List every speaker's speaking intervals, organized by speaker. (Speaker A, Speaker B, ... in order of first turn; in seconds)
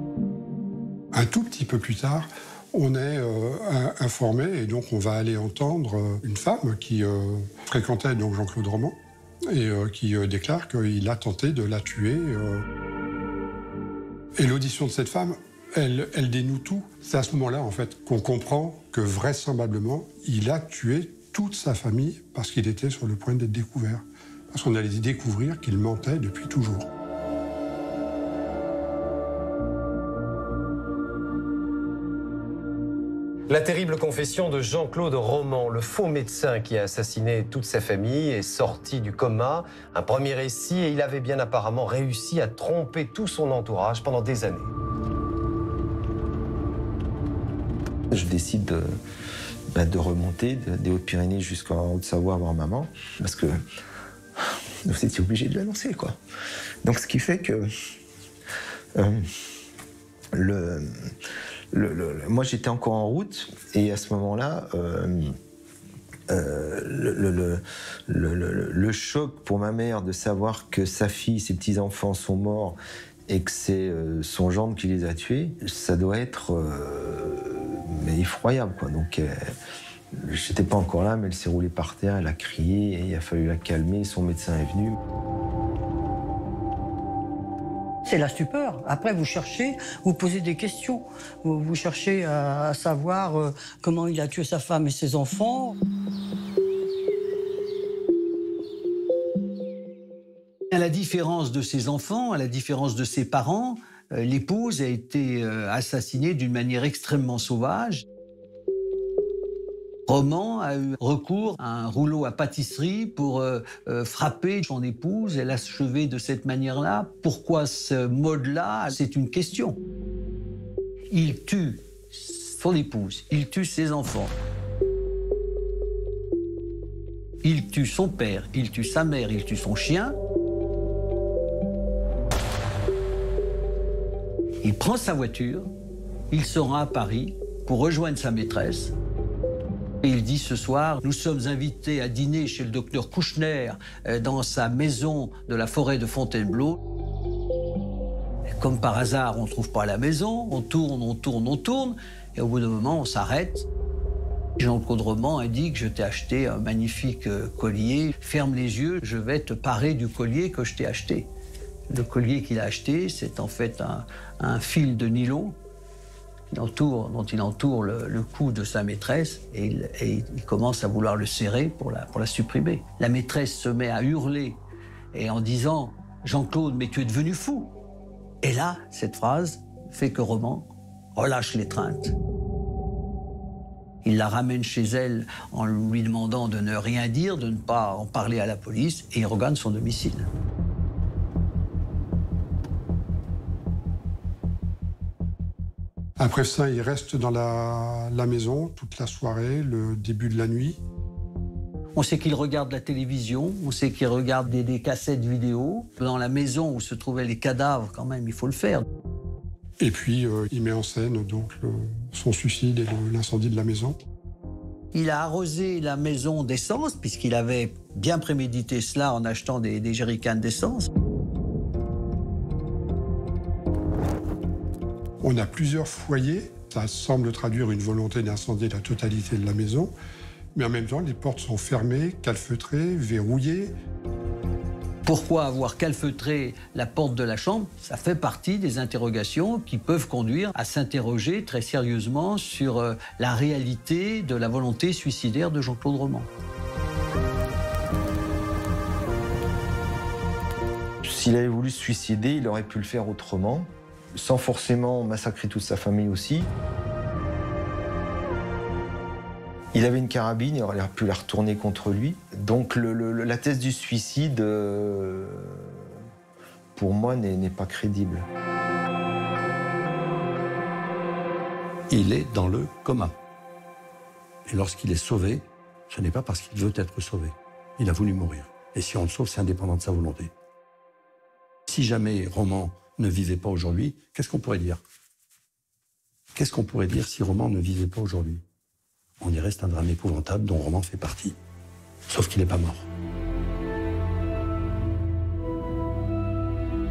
Speaker A: 1.1-9.0, 9.5-12.6, 14.3-26.9, 196.2-200.8, 209.8-214.0, 225.2-229.9, 230.5-233.7
Speaker B: 33.5-44.7
Speaker C: 48.1-48.9, 49.7-53.6, 54.4-56.2, 56.8-57.7, 58.9-59.2, 60.3-61.1, 61.7-65.3, 66.3-72.8, 73.3-79.4, 80.1-85.0, 251.0-256.5, 259.7-265.8, 266.7-268.2
Speaker D: 88.0-95.8
Speaker E: 100.7-108.0, 110.1-119.8, 121.1-124.3, 127.4-130.2, 134.6-135.7, 136.3-138.9, 140.0-146.8, 148.5-153.7, 154.6-161.3, 161.9-165.6, 166.5-174.6, 175.1-177.7, 178.4-182.2, 184.0-190.3, 201.9-208.8, 214.9-220.9, 235.0-246.3
Speaker F: 271.9-273.2, 274.4-280.3, 281.7-284.8, 286.3-288.4, 289.2-291.4, 292.1-292.9